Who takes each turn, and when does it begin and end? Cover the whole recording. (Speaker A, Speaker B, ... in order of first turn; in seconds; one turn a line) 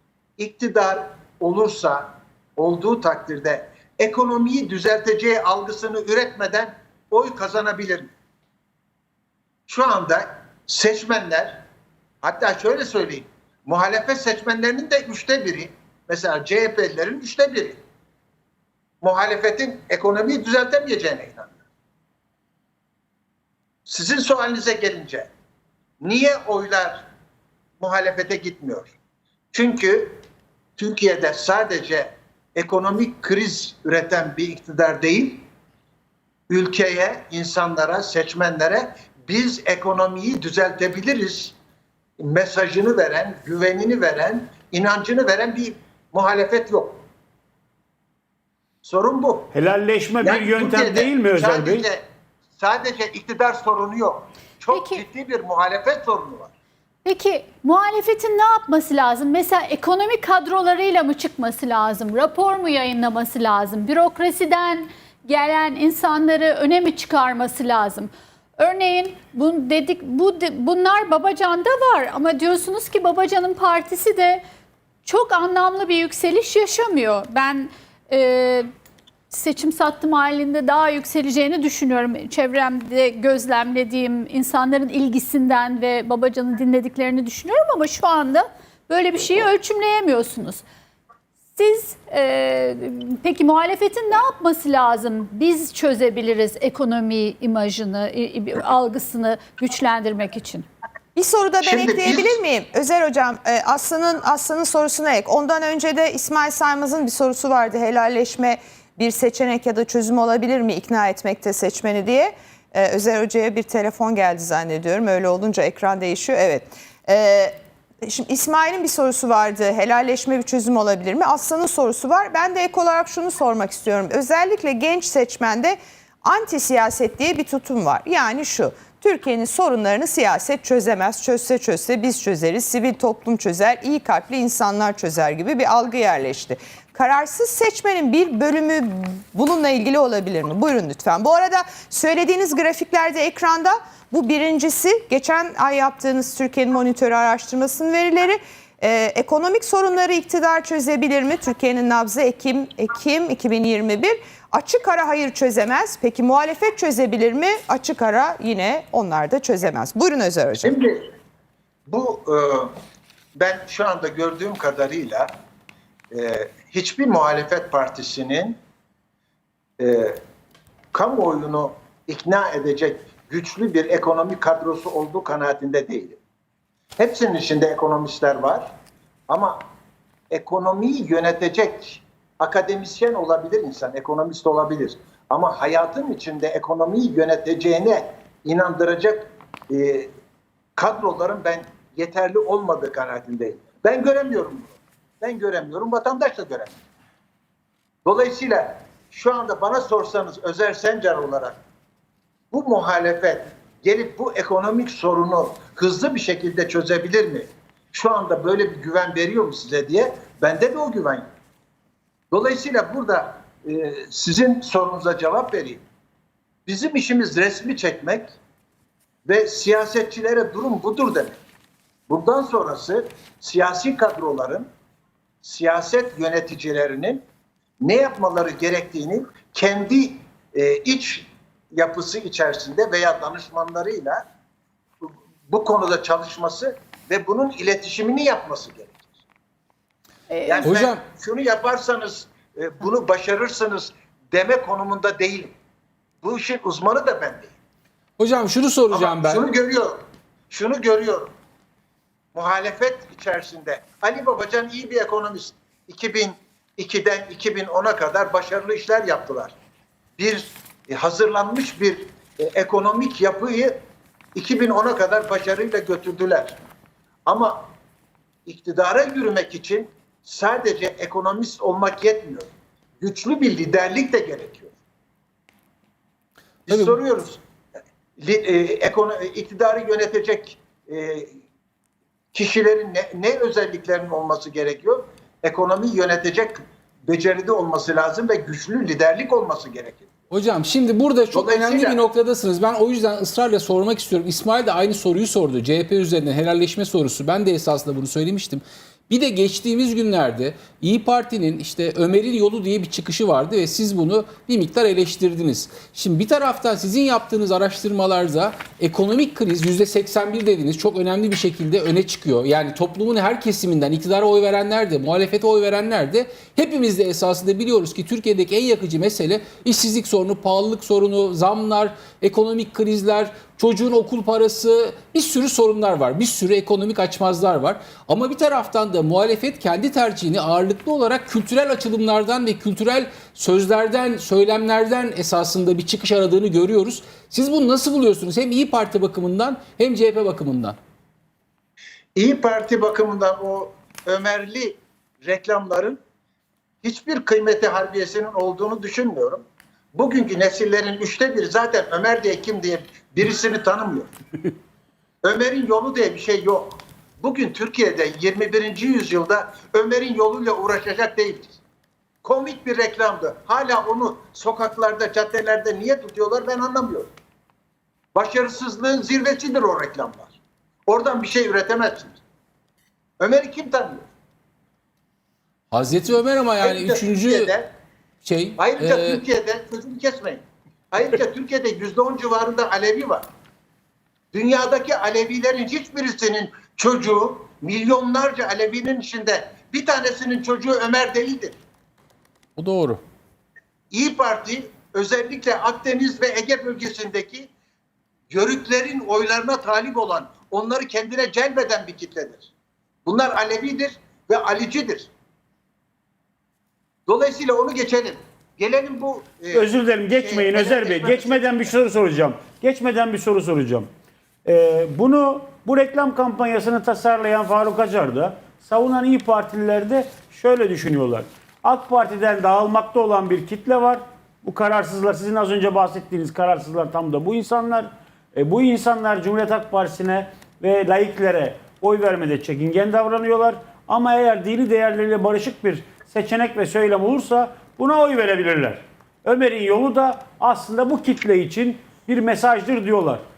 Speaker A: 0.4-8.1
Speaker A: 9.7-11.6
Speaker A: 12.2-17.8
Speaker A: 19.0-21.6
Speaker A: 23.9-25.3
Speaker A: 26.0-27.1
Speaker A: 27.8-29.0
Speaker A: 29.5-30.2
Speaker A: 30.8-35.5
Speaker A: 36.5-41.5
Speaker A: 42.2-47.0
Speaker A: 48.8-49.5
Speaker B: 49.5-51.9
Speaker A: 50.2-52.0
Speaker A: 52.5-56.5
Speaker C: 54.7-55.0
Speaker C: 57.0-74.4
Speaker C: 75.0-78.7
Speaker C: 79.3-90.6
Speaker C: 91.6-100.7
Speaker D: 101.2-160.7
Speaker A: 101.6-102.4
Speaker A: 160.6-161.1
Speaker A: 161.9-162.7
Speaker A: 163.4-165.3
Speaker A: 166.1-168.6
Speaker A: 169.8-170.2
Speaker A: 170.9-176.2
Speaker A: 177.0-178.7
Speaker A: 179.3-179.7
Speaker A: 180.3-190.1
Speaker A: 190.8-196.8
Speaker A: 198.1-201.6
Speaker A: 202.5-211.3
Speaker A: 212.3-215.8
Speaker A: 216.7-218.3
Speaker A: 219.2-221.4
Speaker A: 222.1-224.7
Speaker A: 225.4-227.2
Speaker A: 227.8-234.2
Speaker A: 235.0-239.0
Speaker C: 240.3-240.7
Speaker A: 240.5-245.5
Speaker E: 240.6-241.0
Speaker A: 246.2-247.5
Speaker E: 248.2-249.4
Speaker A: 248.9-251.3
Speaker A: 252.3-259.6
Speaker A: 260.2-263.8
Speaker A: 264.4-266.7
Speaker A: 267.3-267.7
Speaker A: 268.5-274.7
Speaker A: 276.7-277.4
Speaker E: 276.7-277.0
Speaker A: 278.2-281.4
Speaker A: 282.3-290.1
Speaker E: 290.3-340.8
Speaker A: 291.3-292.0
Speaker A: 342.2-346.0
Speaker A: 346.8-354.1
Speaker A: 355.2-361.6
Speaker A: 362.2-367.1
Speaker A: 368.1-372.2
Speaker A: 373.2-374.1
Speaker E: 375.7-377.5
Speaker A: 376.6-377.7
Speaker E: 378.2-379.2
Speaker A: 378.6-383.3
Speaker A: 384.3-391.6
Speaker E: 392.6-393.0
Speaker A: 393.9-397.5
Speaker A: 398.3-402.5
Speaker A: 403.1-405.1
Speaker A: 407.1-411.7
Speaker B: 409.5-413.9
Speaker B: 414.4-443.2